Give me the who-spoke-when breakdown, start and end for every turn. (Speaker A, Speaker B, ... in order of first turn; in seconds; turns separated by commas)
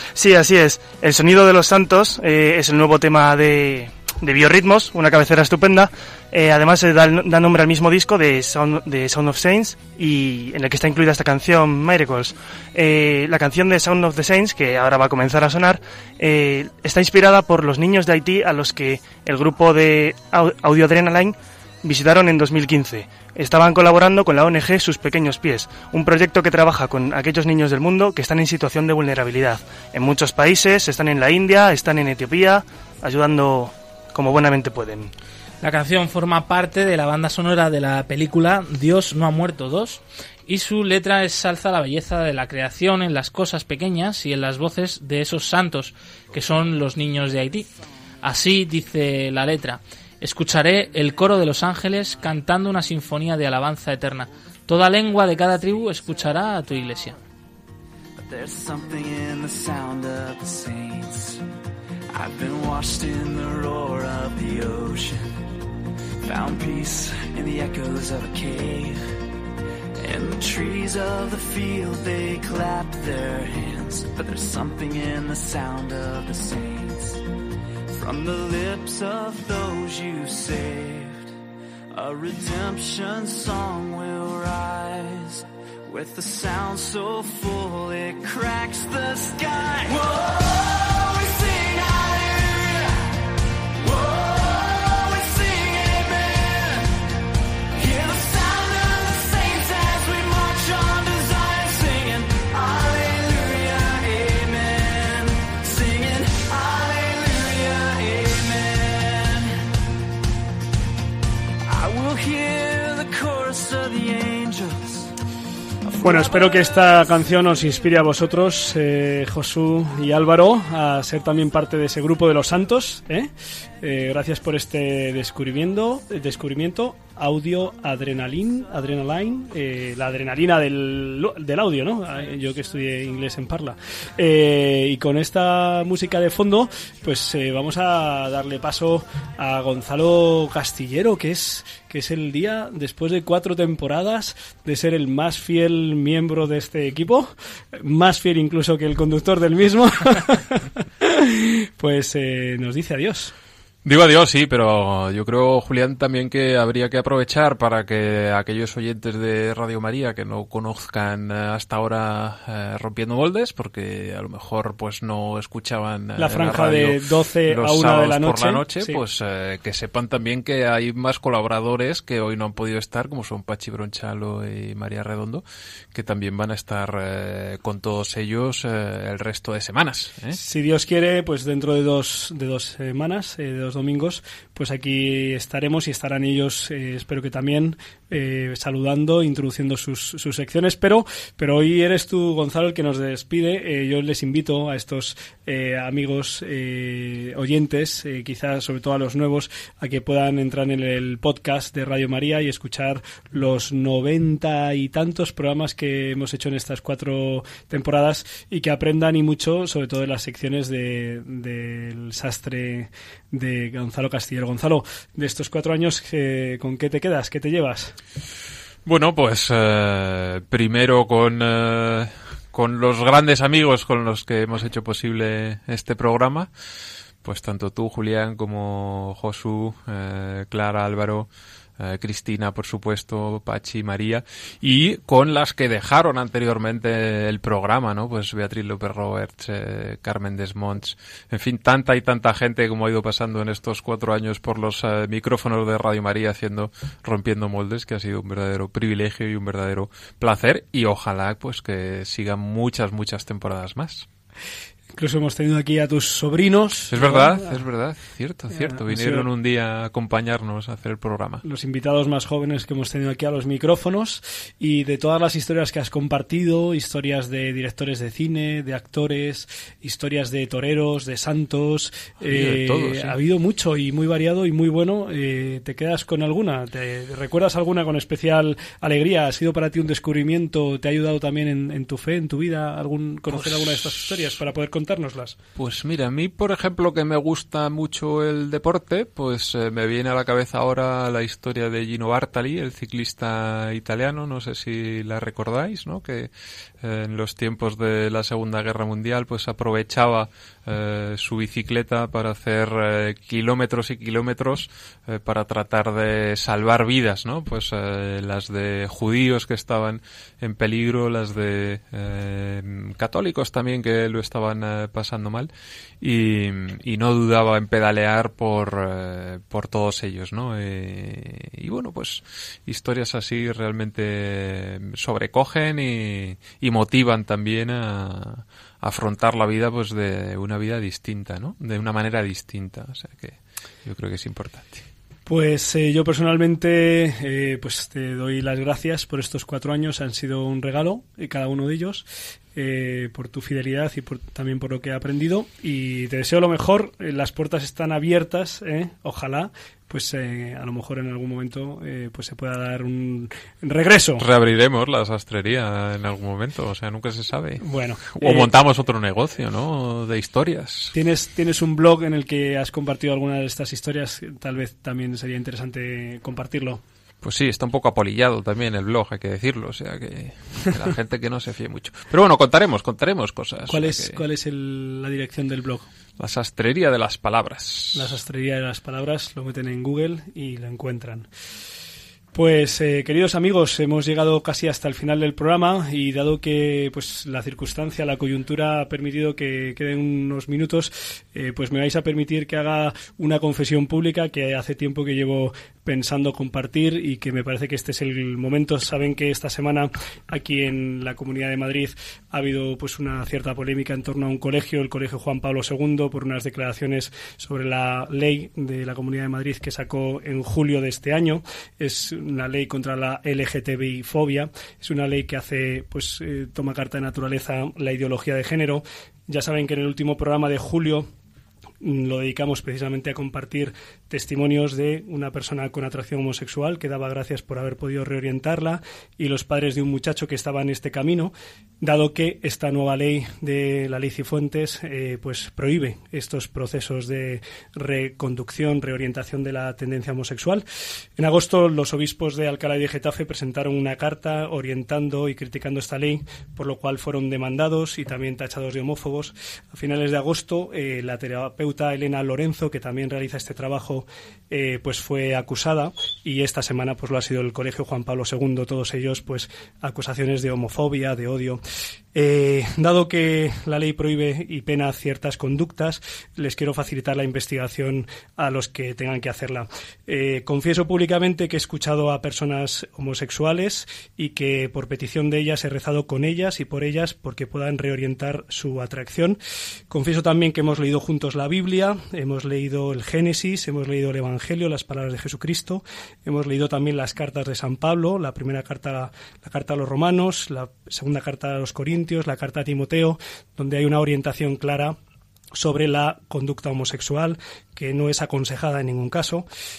Speaker A: 0.1-35.1, Speaker B: 35.6-47.7, Speaker B: 48.2-57.2, Speaker C: 58.2-61.4, Speaker C: 62.1-65.4, Speaker C: 66.2-69.0, Speaker C: 70.0-77.2, Speaker C: 77.9-81.3, Speaker C: 81.9-93.2, Speaker C: 93.8-96.9, Speaker C: 97.7-109.6, Speaker C: 111.7-115.1, Speaker C: 115.8-116.9, Speaker D: 116.0-153.3, Speaker E: 153.8-180.4, Speaker D: 166.2-169.0, Speaker D: 180.3-217.9, Speaker E: 218.8-226.5, Speaker E: 227.2-254.1, Speaker D: 254.9-257.6, Speaker E: 256.9-261.4, Speaker D: 258.5-259.3, Speaker D: 261.4-285.4, Speaker E: 272.3-273.2, Speaker E: 283.3-284.0, Speaker E: 285.6-315.5, Speaker E: 316.0-334.9, Speaker D: 335.3-354.2, Speaker E: 354.2-360.9, Speaker D: 357.6-358.5, Speaker D: 360.9-366.8, Speaker E: 367.2-374.2, Speaker D: 373.7-375.9, Speaker E: 376.2-378.1, Speaker D: 377.9-381.3, Speaker D: 382.3-421.1, Speaker D: 421.8-440.6, Speaker D: 441.2-461.6, Speaker D: 462.1-479.4, Speaker D: 479.9-495.0, Speaker D: 495.5-499.5